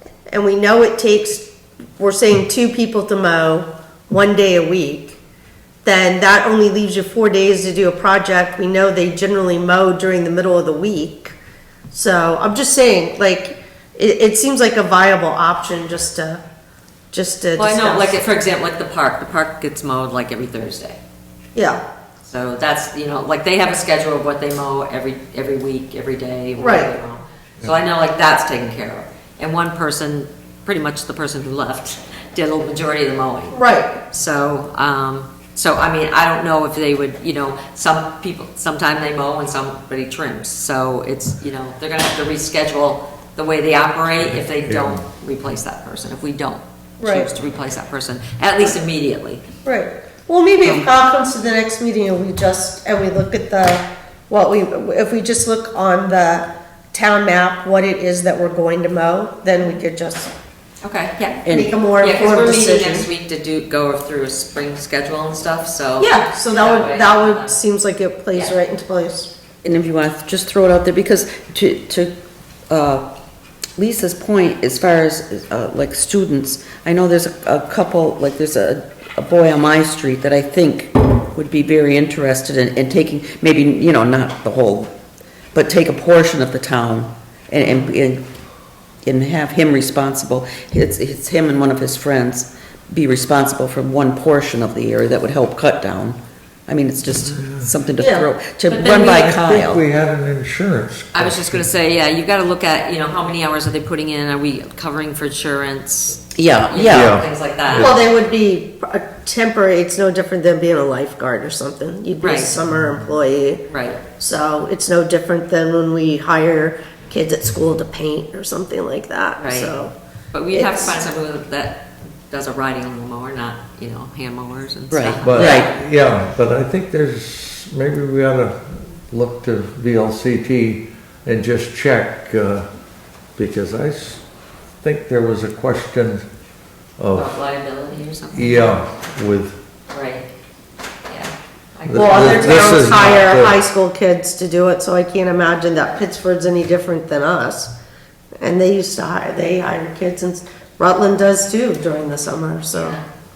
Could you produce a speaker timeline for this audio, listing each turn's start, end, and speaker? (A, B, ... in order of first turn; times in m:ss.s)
0:00.3-0:05.2 A
0:05.8-0:11.3 A
0:11.9-0:16.4 A
0:17.1-0:18.2 A
0:17.6-0:21.0 B
0:21.5-0:21.8 A
0:22.2-0:49.4 B
0:26.6-0:26.9 A
0:33.5-0:34.0 A
0:44.6-0:45.0 C
0:47.0-0:47.3 A
0:49.6-1:00.3 A
1:00.8-1:07.6 B
1:01.4-1:01.7 D
1:01.5-1:03.1 A
1:06.0-1:09.3 A
1:09.6-1:12.1 D
1:12.7-1:13.1 D
1:13.8-1:24.9 D
1:25.5-1:28.2 D
1:29.0-1:39.8 D
1:37.3-1:37.7 C
1:38.0-1:38.3 A
1:38.7-1:39.1 B
1:38.7-1:41.6 C
1:41.1-1:47.9 B
1:46.3-1:47.2 D
1:46.8-1:48.0 C
1:47.7-1:53.6 A
1:52.2-1:52.6 B
1:53.7-1:54.0 B
1:54.2-1:59.9 A
1:59.4-1:59.7 B
2:00.3-2:05.7 B
2:00.5-2:01.0 A
2:04.9-2:05.7 D
2:05.2-2:12.7 C
2:13.4-2:14.2 C
2:14.8-2:16.2 C
2:17.0-2:17.3 C
2:17.1-2:18.9 B
2:18.3-2:19.6 C
2:19.9-2:20.3 B
2:21.1-2:23.2 B
2:21.9-2:23.6 C
2:21.9-2:27.7 A
2:28.4-2:33.0 A
2:32.7-2:33.1 B